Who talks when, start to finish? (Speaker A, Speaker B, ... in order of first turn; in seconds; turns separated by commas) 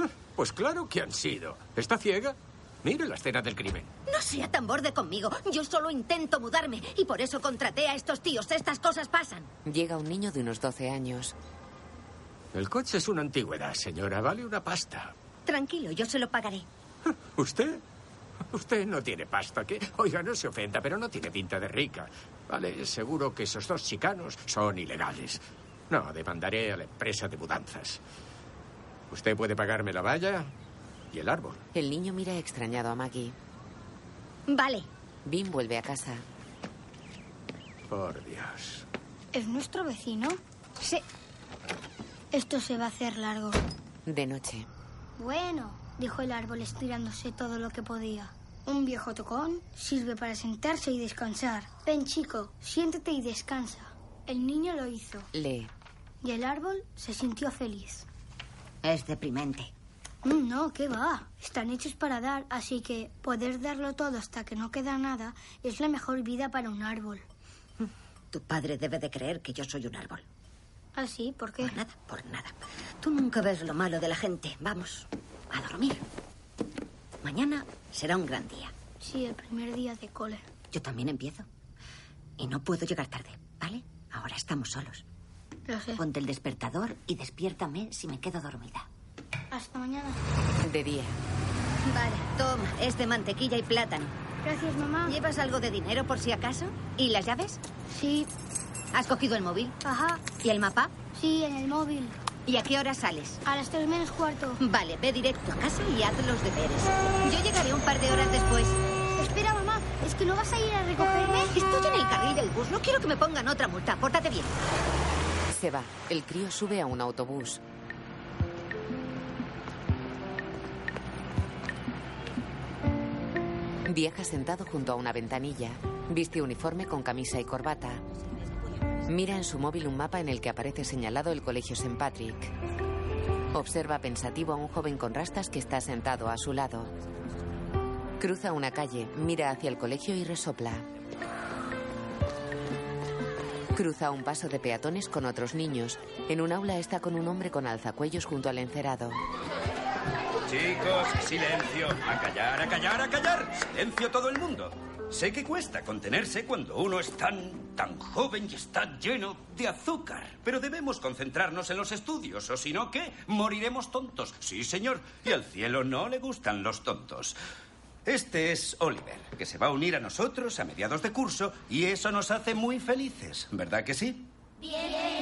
Speaker A: 0.3-3.9, Speaker B: 4.1-9.5, Speaker C: 9.6-11.3, Speaker A: 12.5-15.1, Speaker B: 15.4-16.7, Speaker A: 17.3-17.8, Speaker A: 18.5-28.0, Speaker A: 29.1-30.5, Speaker A: 31.1-31.6, Speaker C: 31.7-33.4, Speaker B: 34.5-34.9, Speaker C: 35.2-36.2, Speaker A: 37.9-38.8, Speaker D: 39.3-40.4, Speaker D: 42.3-43.6, Speaker C: 44.0-44.7, Speaker D: 45.2-55.3, Speaker C: 55.3-55.7, Speaker D: 56.2-58.0, Speaker B: 58.8-59.7, Speaker D: 60.2-67.2, Speaker B: 67.8-70.2, Speaker D: 70.9-71.7, Speaker B: 71.6-76.0, Speaker B: 77.2-78.7, Speaker D: 79.0-80.4, Speaker B: 80.7-81.4, Speaker B: 82.4-85.0, Speaker D: 85.7-86.0, Speaker B: 86.0-88.8, Speaker D: 89.5-90.2, Speaker C: 90.6-91.2, Speaker B: 91.8-94.1, Speaker D: 94.4-95.2, Speaker B: 95.0-97.6, Speaker D: 97.9-98.3, Speaker B: 98.9-99.8, Speaker D: 99.8-100.2, Speaker B: 100.4-100.9, Speaker D: 101.1-102.2, Speaker B: 102.5-103.4, Speaker D: 103.4-104.6, Speaker B: 104.6-108.8, Speaker D: 109.2-111.5, Speaker B: 111.5-114.6, Speaker C: 115.5-117.6, Speaker C: 123.8-128.0, Speaker C: 129.1-132.5, Speaker C: 133.5-136.9, Speaker C: 138.2-140.8, Speaker C: 143.7-149.2, Speaker E: 150.5-167.4, Speaker E: 168.1-174.3